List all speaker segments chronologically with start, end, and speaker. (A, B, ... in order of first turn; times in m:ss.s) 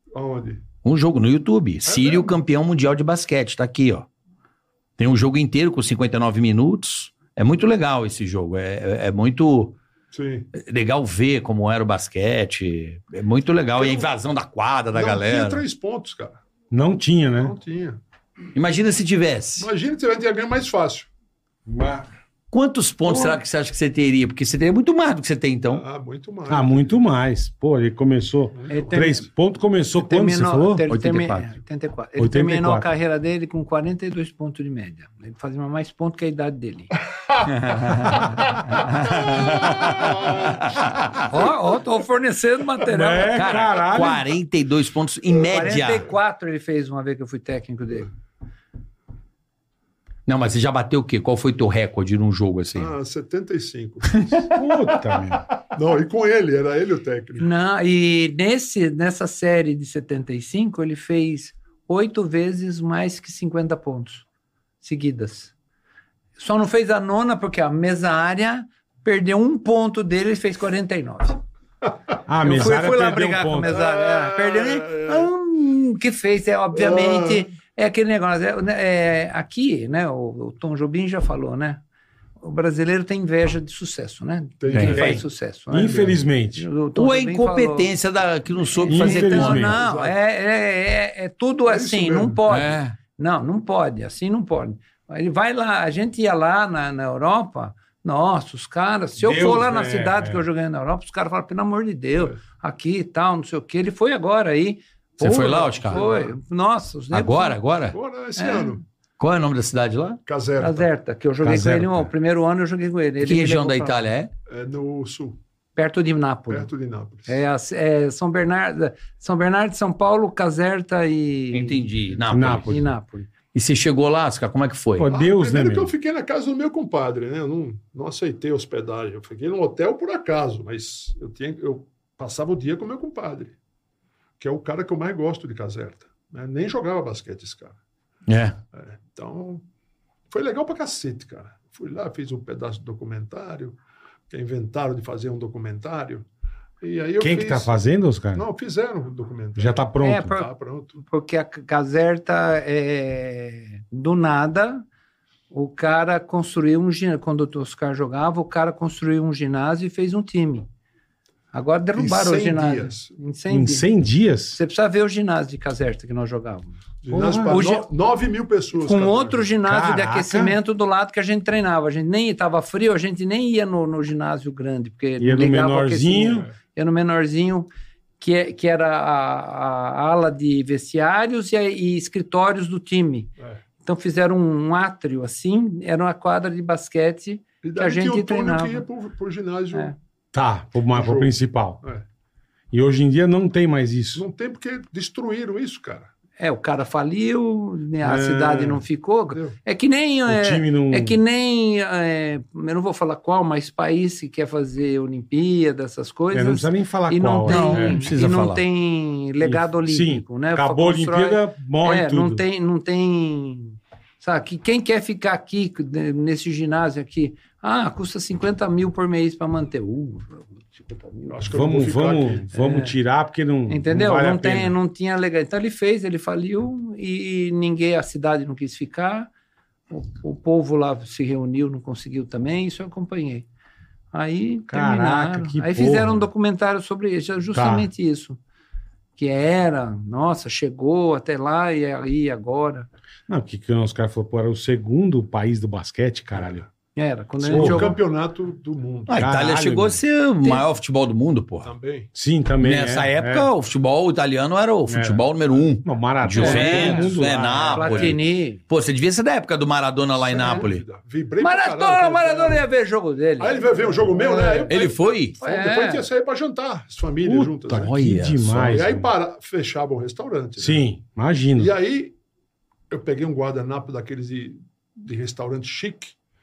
0:00.1-0:00.6 A
0:00.8-0:04.1 B
0:01.8-0:02.4 A
0:05.0-0:09.8 B
0:10.1-0:10.5 A
0:10.6-0:15.6 B
0:13.8-0:14.1 A
0:14.9-0:16.4 A
0:16.7-0:17.5 C
0:17.4-0:18.0 A
0:18.6-0:19.7 B
0:19.6-0:21.1 A
0:21.7-0:22.1 C
0:22.5-0:25.8 B
0:25.7-0:27.0 A
0:26.5-0:30.8 C
0:28.6-0:29.2 A
0:28.7-0:29.2 D
0:30.0-0:36.9 D
0:30.9-0:31.5 B
0:32.2-0:32.9 C
0:37.5-0:41.2 B
0:39.1-0:40.5 A
0:41.3-0:43.7 D
0:42.9-0:44.3 C
0:43.8-0:46.1 B
0:45.4-0:48.1 D
0:50.3-0:52.9 B
0:52.8-0:54.6 A
0:54.5-0:55.4 C
0:55.7-0:57.5 A
0:57.4-1:04.2 D
1:04.8-1:05.5 D
1:06.4-1:11.4 D
1:12.3-1:13.8 C
1:12.4-1:21.8 D
1:13.7-1:15.3 A
1:16.7-1:17.5 A
1:22.4-1:27.9 D
1:24.6-1:25.2 A
1:24.7-1:26.7 C
1:27.0-1:29.7 B
1:28.6-1:47.6 D
1:28.9-1:29.8 C
1:29.3-1:30.2 A
1:31.7-1:32.4 A
1:32.5-1:33.0 B
1:39.2-1:40.4 C
1:45.2-1:46.0 B
1:45.8-1:46.3 A
1:47.1-1:48.0 B
1:47.9-1:48.8 A
1:48.4-1:48.8 D
1:49.2-1:50.2 B
1:50.3-1:50.9 A
1:50.6-1:54.0 D
1:51.4-1:52.1 C
1:53.2-1:54.3 B
1:54.5-1:55.4 A
1:55.8-1:56.7 D
1:56.5-1:57.4 A
1:57.3-2:01.8 D
2:01.5-2:02.8 B
2:02.3-2:02.8 C
2:02.6-2:03.3 D
2:03.5-2:05.1 B
2:05.0-2:05.9 C
2:05.1-2:13.6 A
2:14.4-2:17.8 A
2:18.3-2:18.6 B
2:18.7-2:19.6 A
2:20.3-2:23.8 A
2:24.3-2:26.3 A
2:26.8-2:27.8 A
2:27.2-2:28.5 C
2:28.4-2:31.0 A
2:29.6-2:30.3 C
2:30.0-2:34.8 D
2:35.5-2:40.7 D
2:41.5-2:43.9 D
2:42.0-2:43.1 A
2:43.5-2:44.6 C
2:44.5-2:46.8 D
2:47.0-2:49.5 A
2:47.1-2:47.6 C
2:47.5-2:47.9 D
2:48.8-2:57.7 D
2:49.6-2:50.6 C
2:55.2-2:56.5 C
2:56.2-2:56.5 A
2:58.2-3:03.3 D
3:03.8-3:08.8 D
3:07.6-3:09.9 A
3:10.3-3:11.8 C
3:10.9-3:12.0 A
3:12.7-3:14.2 C
3:14.2-3:16.1 A
3:16.4-3:41.4 D
3:18.0-3:18.8 C
3:20.3-3:21.2 C
3:26.3-3:28.0 C
3:27.5-3:28.6 B
3:29.4-3:32.4 C
3:41.3-3:42.5 A
3:41.5-3:44.8 C
3:42.5-3:43.0 D
3:43.7-3:49.3 D
3:49.9-3:53.5 D
3:54.1-3:58.4 D
3:54.7-3:56.3 C
3:57.6-3:57.9 C
3:59.2-4:02.9 D
4:03.3-4:06.6 C
4:07.0-4:08.0 D
4:07.4-4:08.0 C
4:07.4-4:09.4 A
4:09.1-4:11.7 B
4:09.2-4:10.0 C
4:11.6-4:12.1 A
4:12.2-4:13.5 C
4:12.6-4:20.8 B
4:14.9-4:15.3 C
4:15.8-4:18.2 C
4:16.4-4:17.1 D
4:17.8-4:18.6 D
4:20.2-4:22.6 A
4:21.4-4:24.8 D
4:23.4-4:27.9 A
4:24.7-4:25.4 B
4:25.4-4:26.0 D
4:27.2-4:29.1 C
4:27.7-4:28.5 B
4:28.5-4:30.8 A
4:30.6-4:31.7 C
4:31.6-4:32.2 A
4:32.9-4:36.2 A